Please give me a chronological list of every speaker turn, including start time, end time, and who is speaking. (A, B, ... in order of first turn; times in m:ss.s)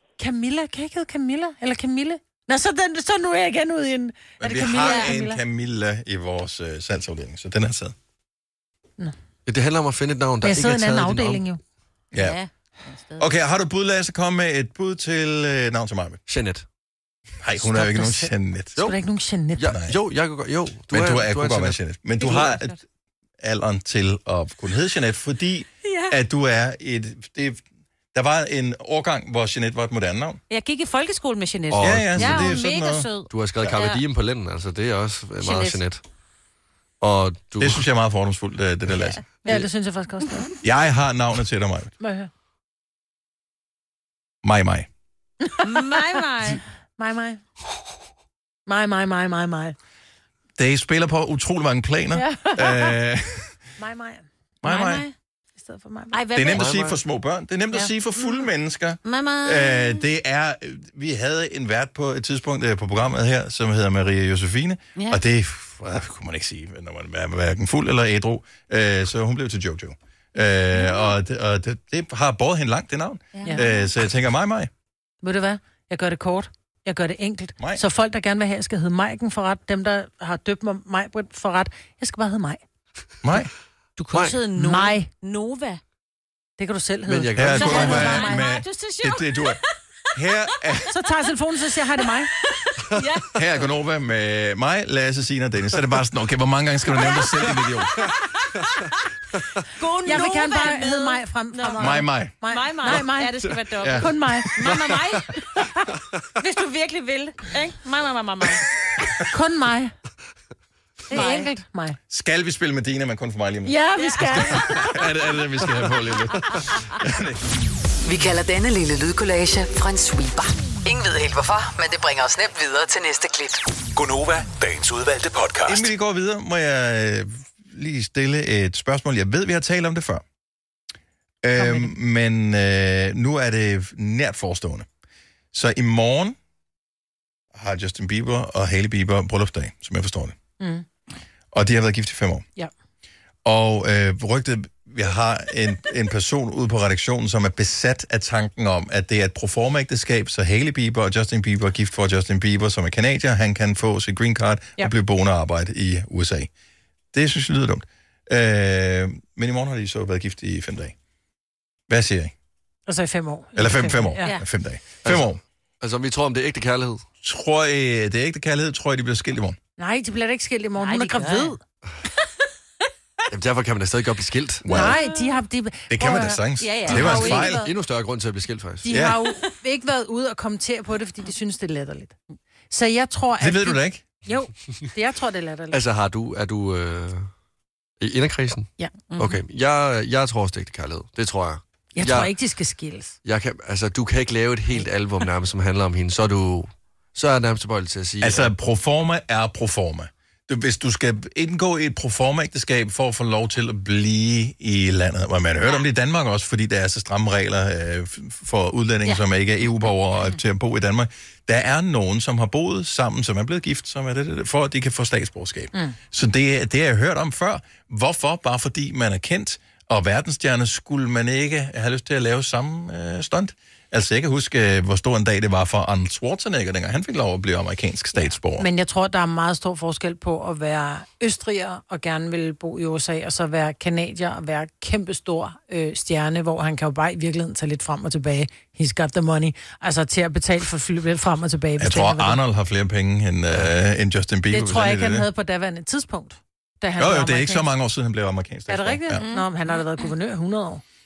0:00.2-0:05.4 A
0:04.4-0:08.0 B
0:04.8-0:05.1 C
0:09.5-0:11.4 D
0:10.4-0:11.6 A
0:12.1-0:12.4 B
0:12.1-0:13.3 C
0:13.2-0:16.2 B
0:16.3-0:16.6 D
0:17.4-0:18.8 B
0:17.6-0:19.7 A
0:19.6-0:22.5 D
0:19.7-0:20.0 B
0:20.9-0:22.8 B
0:22.2-0:22.7 C
0:23.4-0:27.6 B
0:25.8-0:26.2 C
0:28.1-0:30.4 B
0:30.5-0:34.0 C
0:31.7-0:32.6 D
0:31.8-0:33.1 B
0:33.3-0:36.0 D
0:35.4-0:35.8 C
0:37.0-0:37.8 D
0:37.6-0:39.2 B
0:39.4-0:40.5 A
0:40.6-0:41.9 B
0:42.0-0:42.3 A
0:44.4-0:44.9 B
0:45.4-0:46.1 A
0:45.6-0:46.6 C
0:47.0-0:47.4 A
0:48.7-0:49.8 A
0:50.6-0:53.6 B
0:52.1-0:53.0 A
0:53.8-0:54.2 A
0:54.6-0:55.1 B
0:54.6-0:55.1 C
0:55.6-0:56.2 A
0:56.1-0:56.7 C
0:56.3-1:14.7 B
0:56.5-0:57.0 D
0:59.0-1:00.0 C
1:05.0-1:05.2 C
1:10.8-1:11.1 C
1:13.3-1:13.9 C
1:15.2-1:22.6 A
1:23.2-1:23.5 B
1:24.0-1:25.8 C
1:24.1-1:24.4 D
1:24.6-1:25.1 A
1:26.6-1:28.5 A
1:27.1-1:28.2 D
1:27.4-1:29.6 B
1:27.6-1:29.6 C
1:30.2-1:30.9 B
1:30.9-1:32.3 A
1:32.4-1:33.4 C
1:33.4-1:38.1 B
1:37.0-1:37.3 C
1:39.8-1:45.5 C
1:40.0-1:43.3 A
1:41.8-1:42.3 B
1:43.8-1:45.2 B
1:44.0-1:44.5 A
1:46.4-1:48.7 C
1:49.3-1:49.9 A
1:51.1-1:51.5 C
1:51.1-1:52.0 A
1:52.1-1:57.4 B
1:53.7-1:55.0 A
1:54.0-1:54.6 C
1:58.1-2:03.6 E
2:04.0-2:05.9 F
2:05.7-2:10.2 B
2:11.4-2:14.9 B
2:11.6-2:11.9 A
2:15.5-2:16.4 B
2:17.5-2:20.4 B
2:20.6-2:20.9 A
2:21.5-2:22.4 B
2:23.4-2:36.5 B
2:37.1-2:40.9 B
2:41.9-2:42.3 B
2:42.9-2:44.4 A
2:43.6-2:45.4 B
2:45.8-2:47.1 D
2:47.2-2:49.6 B
2:49.8-2:51.6 A
2:50.8-2:51.5 C
2:53.3-2:54.7 D
2:54.6-2:55.0 B
2:54.7-2:57.7 A
2:54.8-2:55.3 C
2:55.9-2:57.6 B
2:56.6-2:57.5 C
2:56.9-2:59.0 D
2:58.8-3:02.2 A
2:58.9-2:59.2 B
3:02.7-3:05.8 A
3:03.4-3:04.0 B
3:05.7-3:07.3 D
3:08.0-3:12.3 D
3:09.1-3:09.4 C
3:12.0-3:13.2 A
3:13.2-3:18.5 D
3:18.2-3:48.7 B
3:48.6-4:02.4 A
4:01.8-4:05.3 B
4:04.5-4:07.7 A
4:07.0-4:09.2 B
4:08.7-4:10.8 A
4:09.2-4:10.1 C